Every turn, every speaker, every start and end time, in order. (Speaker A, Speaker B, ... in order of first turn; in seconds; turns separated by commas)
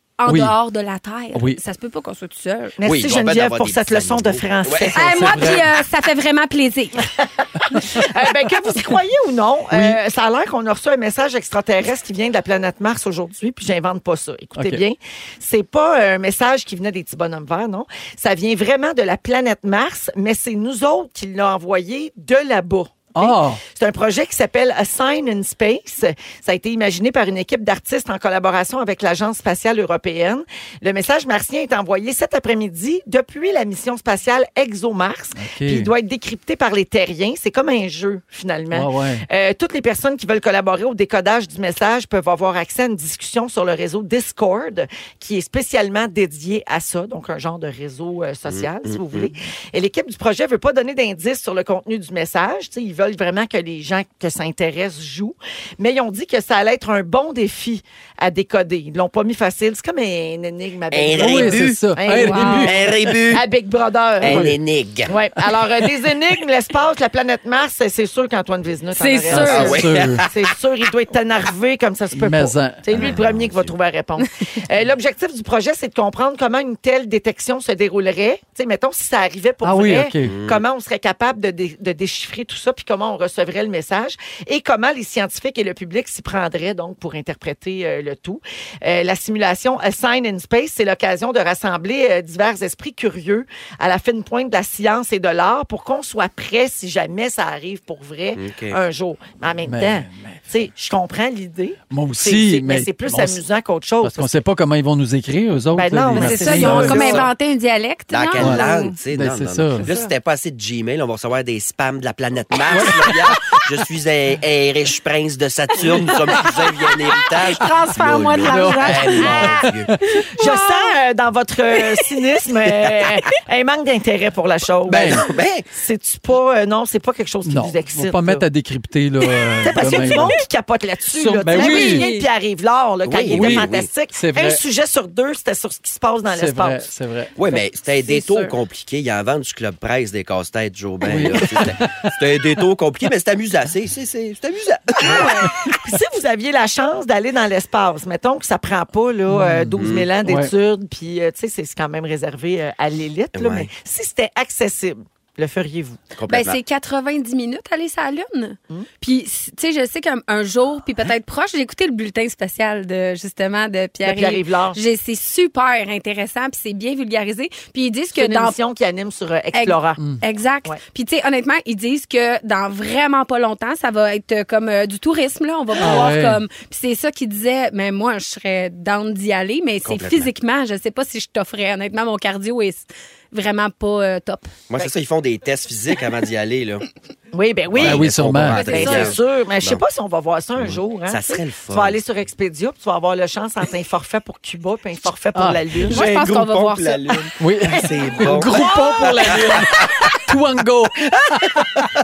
Speaker A: 0.2-2.8, Speaker B: 0.2-0.6, Speaker B: 1.3-1.6, Speaker C: 2.8-5.5, Speaker D: 2.8-5.1, Speaker A: 4.9-7.1, Speaker B: 5.2-5.7, Speaker C: 7.7-64.5, Speaker B: 9.7-10.0, Speaker B: 14.6-14.8, Speaker B: 23.1-23.6, Speaker B: 35.3-35.9, Speaker B: 38.7-39.2, Speaker D: 48.5-49.3, Speaker D: 60.9-61.9, Speaker B: 61.2-62.8, Speaker A: 62.1-62.7, Speaker D: 62.6-63.4, Speaker D: 64.2-65.1, Speaker B: 64.3-64.6, Speaker C: 65.1-104.3, Speaker A: 68.9-69.9, Speaker B: 69.3-70.2, Speaker D: 69.4-70.3, Speaker B: 72.1-72.8, Speaker D: 72.9-73.7, Speaker B: 79.6-80.3, Speaker D: 80.2-80.6, Speaker D: 98.3-98.8, Speaker B: 99.7-100.4, Speaker B: 101.9-103.4, Speaker B: 104.0-107.2, Speaker C: 105.7-107.3, Speaker A: 106.1-109.0, Speaker D: 106.6-107.3, Speaker D: 108.1-119.9, Speaker B: 108.4-109.9, Speaker B: 112.7-113.6, Speaker B: 116.1-116.4, Speaker A: 117.3-119.5, Speaker B: 118.4-119.7, Speaker C: 119.1-119.5, Speaker A: 120.2-120.9, Speaker C: 120.3-128.4, Speaker B: 124.9-125.2, Speaker D: 124.9-125.7, Speaker B: 127.5-130.4, Speaker C: 129.6-136.9, Speaker B: 131.1-132.1, Speaker A: 131.4-132.3, Speaker D: 133.1-133.9, Speaker B: 133.3-134.6, Speaker B: 136.3-137.4, Speaker D: 137.4-145.4, Speaker A: 138.0-138.5, Speaker B: 141.0-142.2, Speaker C: 145.0-156.0, Speaker B: 149.3-150.5, Speaker D: 149.8-150.1, Speaker D: 153.3-153.7, Speaker D: 156.2-156.6, Speaker A: 156.3-168.6, Speaker C: 164.0-164.8, Speaker C: 168.1-170.0, Speaker A: 169.5-184.5, Speaker B: 175.8-176.4, Speaker D: 179.8-180.3, Speaker D: 184.7-186.8, Speaker C: 187.3-196.1, Speaker D: 187.7-189.8, Speaker B: 187.8-188.6, Speaker A: 188.6-189.2, Speaker D: 190.6-192.0, Speaker B: 195.3-195.8, Speaker A: 195.9-197.2, Speaker D: 195.9-199.6, Speaker B: 197.4-201.7, Speaker C: 197.8-199.6